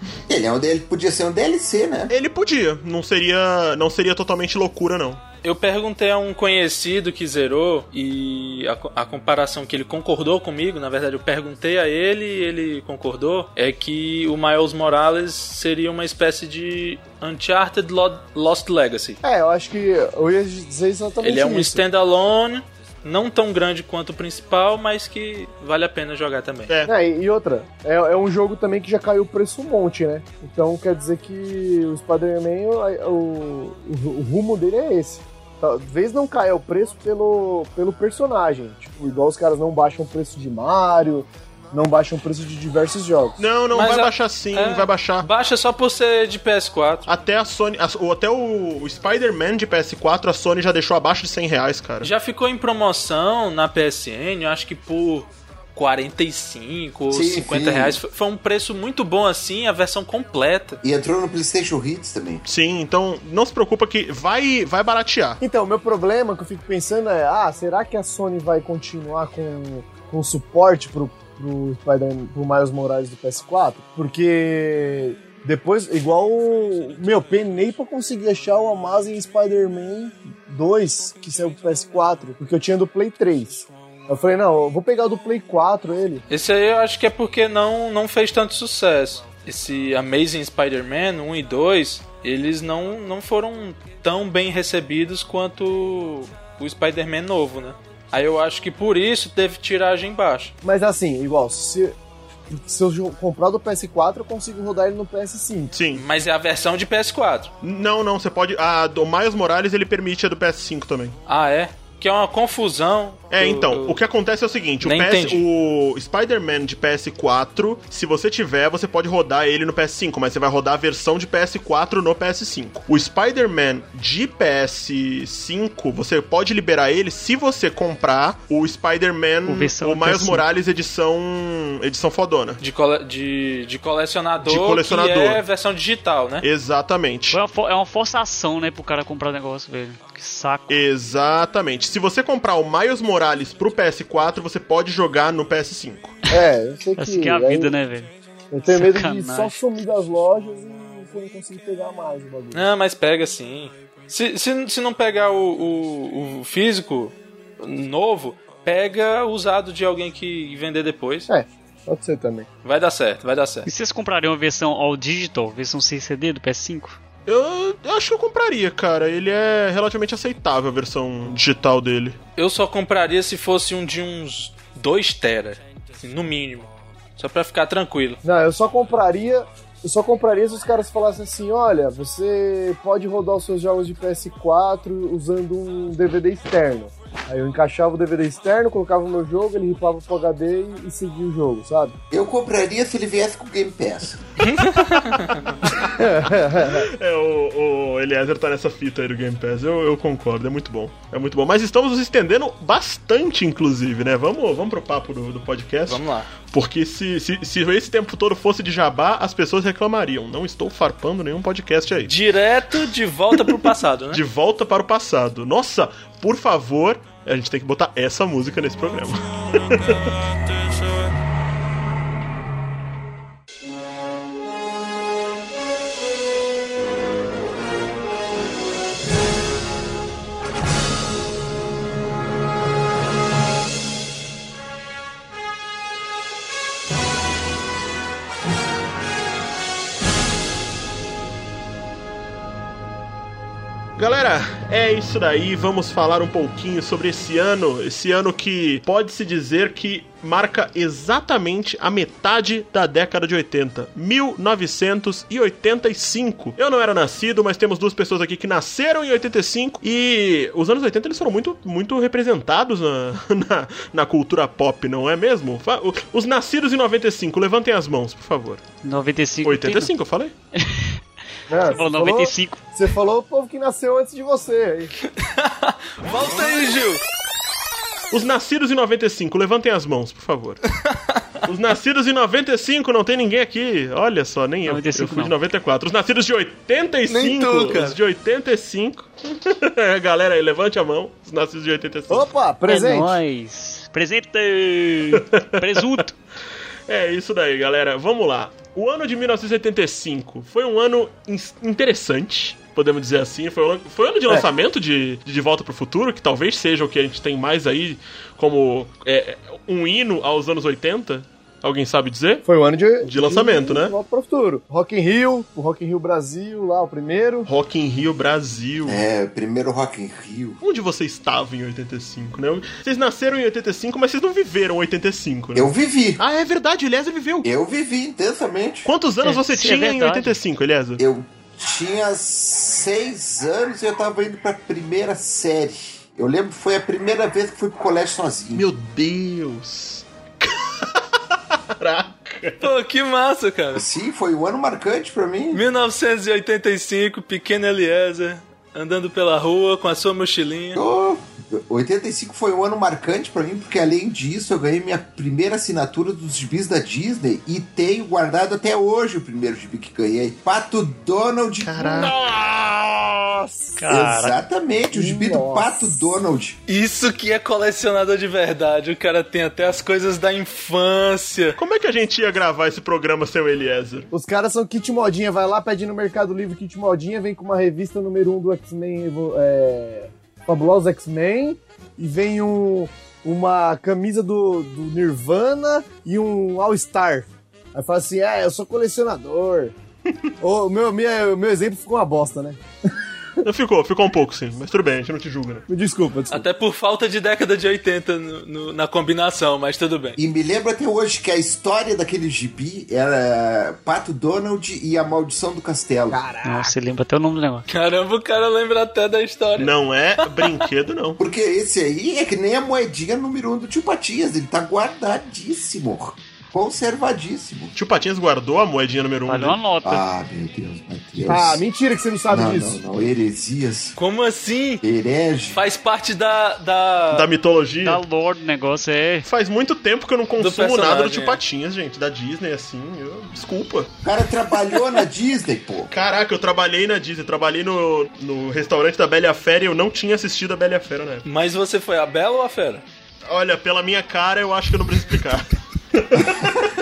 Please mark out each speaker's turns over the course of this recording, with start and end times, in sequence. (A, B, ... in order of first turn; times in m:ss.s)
0:00.3-0:02.1 A
0:02.1-0:05.2 B
0:05.4-0:19.2 C
0:19.2-0:21.8 D
0:21.2-0:26.7 C
0:26.8-0:43.4 D
0:43.4-0:45.3 B
0:43.7-0:47.1 C
0:47.1-0:52.1 B
0:52.0-1:00.8 C
0:57.1-0:58.0 A
1:00.8-1:02.4 A
1:02.4-1:05.4 B
1:05.4-1:26.2 D
1:26.3-1:40.5 C
1:40.6-1:42.0 D
1:42.5-1:45.7 D
1:45.7-1:46.0 B
1:45.9-1:47.5 C
1:47.6-1:51.2 B
1:51.3-1:54.0 C
1:53.3-2:12.6 B
1:54.8-1:55.4 C
2:09.4-2:10.4 E
2:12.6-2:16.4 C
2:14.4-2:15.4 B
2:16.4-2:17.4 B
2:17.3-2:20.8 E
2:20.7-2:26.2 B
2:26.3-2:27.7 D
2:27.0-2:28.1 E
2:28.5-2:32.7 D
2:28.6-2:29.6 E
2:32.5-2:41.3 C
2:41.3-2:42.5 D
2:42.6-2:43.7 C
2:43.6-2:47.0 E
2:47.2-2:52.2 B
2:52.4-2:58.2 C
2:58.2-3:12.0 D
3:12.1-3:14.2 A
3:14.4-3:15.4 C
3:15.6-3:15.9 B
3:15.8-3:16.9 D
3:16.6-3:32.1 B
3:25.9-3:26.3 C
3:32.1-3:34.2 C
3:34.1-3:40.2 B
4:04.0-4:28.6 B
4:28.8-4:29.9 E
4:29.4-4:30.3 B
4:30.5-4:31.0 E
4:31.5-4:34.9 D
4:31.6-4:32.6 E
4:35.0-4:37.0 C
4:38.1-4:40.6 B
4:40.8-4:41.3 C
4:41.4-4:52.3 B
4:44.6-4:45.4 E
4:47.1-4:48.0 C
4:52.1-4:53.2 D
4:52.7-4:56.2 E
4:55.1-4:55.9 B
4:56.9-5:12.4 B
5:12.4-5:17.5 D
5:13.0-5:13.9 B
5:17.4-5:19.0 B
5:18.8-5:20.6 A
5:20.6-5:27.5 B
5:25.5-5:26.2 A
5:27.4-5:28.9 A
5:28.8-5:31.0 B
5:29.2-5:30.4 E
5:31.0-5:38.7 A
5:38.6-5:42.7 B
5:42.6-5:43.8 C
5:43.7-5:45.6 A
5:45.5-5:50.8 C
5:50.7-6:02.1 A
6:01.6-6:03.2 B
6:03.8-6:04.4 E
6:03.9-6:06.6 A
6:04.9-6:06.0 D
6:06.7-6:11.6 C
6:11.6-6:14.1 B
6:14.1-6:29.7 D
6:30.4-6:32.6 D
6:33.4-6:35.6 B
6:35.7-6:36.5 D
6:36.3-6:40.2 C
6:40.2-6:46.2 A
6:46.1-6:46.8 D
6:46.4-6:47.6 E
6:47.7-6:50.7 C
6:49.6-6:51.2 B
6:51.2-6:57.7 A
6:57.7-6:59.6 B
6:59.3-7:00.0 E
6:59.8-7:01.6 A
7:01.2-7:03.0 D
7:02.3-7:04.0 A
7:04.0-7:04.8 C
7:04.8-7:05.6 A
7:05.5-7:07.3 C
7:07.1-7:08.0 B
7:07.8-7:09.3 E
7:09.2-7:13.9 B
7:10.4-7:11.4 C
7:14.0-7:15.9 A
7:15.9-7:21.2 B
7:21.2-7:22.8 C
7:23.3-7:26.6 B